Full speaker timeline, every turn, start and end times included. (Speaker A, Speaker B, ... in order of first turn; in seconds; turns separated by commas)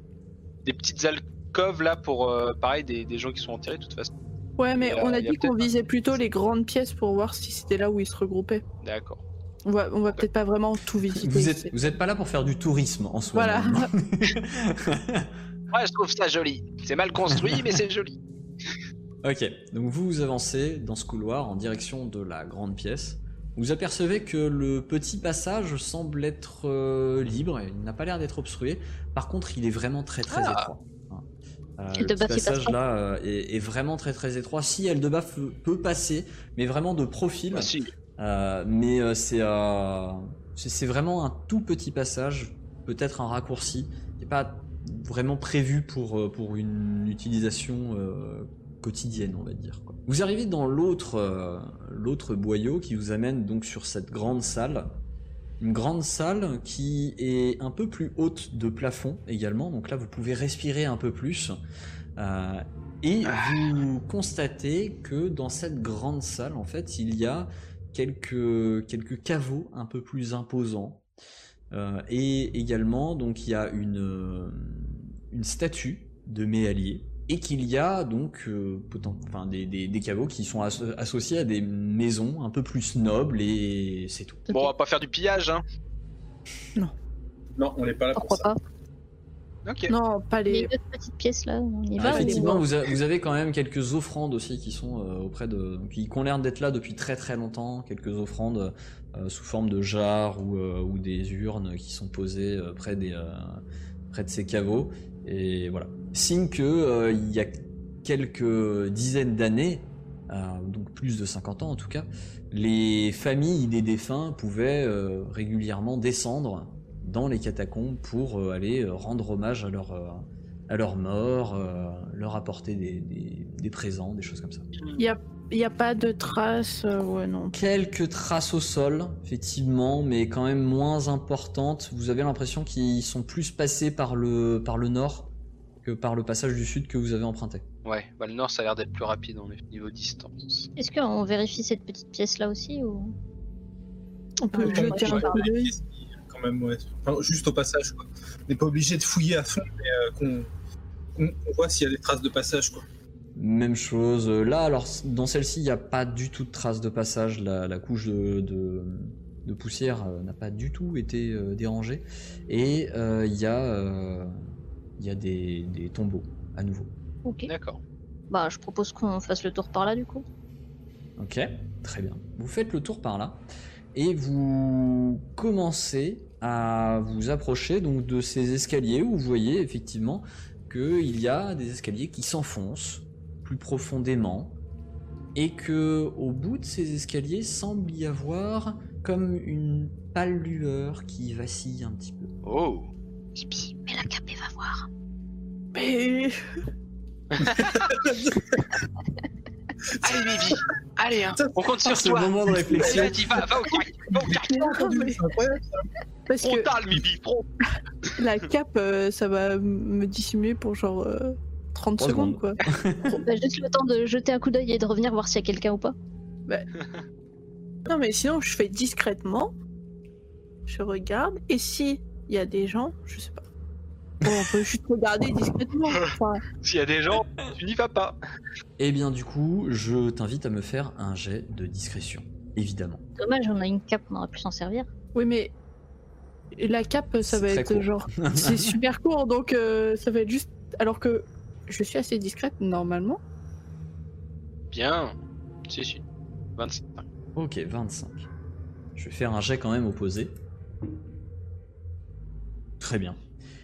Speaker A: 0.7-4.1, Speaker B: 4.6-8.6, Speaker A: 4.8-5.8, Speaker A: 8.8-9.2, Speaker B: 9.7-11.8, Speaker C: 11.1-15.3, Speaker B: 13.3-13.9, Speaker A: 15.7-18.2, Speaker C: 17.3-17.8, Speaker C: 19.2-31.2, Speaker A: 30.3-30.7, Speaker C: 31.8-54.9, Speaker D: 32.0-32.8, Speaker A: 37.5-37.9, Speaker C: 55.6-61.6, Speaker C: 62.2-71.0, Speaker A: 63.2-63.6, Speaker C: 71.7-84.5, Speaker A: 84.5-85.6, Speaker E: 87.6-88.5, Speaker D: 88.1-88.6, Speaker A: 89.6-89.9, Speaker B: 89.9-90.7, Speaker D: 90.5-92.6, Speaker C: 92.0-124.7, Speaker B: 92.0-92.6, Speaker B: 125.0-127.6, Speaker C: 127.5-135.3, Speaker C: 135.8-137.6, Speaker A: 137.8-140.7, Speaker D: 140.8-143.1, Speaker B: 144.4-145.7, Speaker D: 144.5-145.5, Speaker E: 144.6-150.5, Speaker E: 151.2-152.9, Speaker C: 153.4-164.4, Speaker C: 165.0-166.9, Speaker D: 167.2-167.5, Speaker A: 167.5-167.8, Speaker D: 168.3-170.2, Speaker C: 171.2-184.6, Speaker C: 185.3-192.3, Speaker A: 192.4-194.8, Speaker D: 194.1-194.5, Speaker B: 195.7-196.4, Speaker A: 197.3-197.8, Speaker E: 197.4-198.7, Speaker E: 199.9-200.7, Speaker A: 200.0-204.8, Speaker E: 201.4-201.8, Speaker C: 201.8-203.4, Speaker E: 202.4-203.4, Speaker E: 204.1-205.9, Speaker B: 204.4-205.2, Speaker B: 206.3-206.7, Speaker A: 206.4-207.4, Speaker B: 208.2-213.2, Speaker C: 212.0-213.2, Speaker D: 213.1-215.9, Speaker B: 217.8-219.5, Speaker B: 220.7-223.4, Speaker B: 224.2-226.4, Speaker A: 225.9-228.2, Speaker C: 228.8-233.0, Speaker D: 233.2-234.9, Speaker B: 235.1-235.5, Speaker B: 236.6-243.2, Speaker C: 237.3-238.8, Speaker A: 244.7-245.1, Speaker A: 245.7-246.0, Speaker A: 246.6-247.0, Speaker C: 247.4-248.3, Speaker C: 248.9-250.3, Speaker C: 252.8-253.2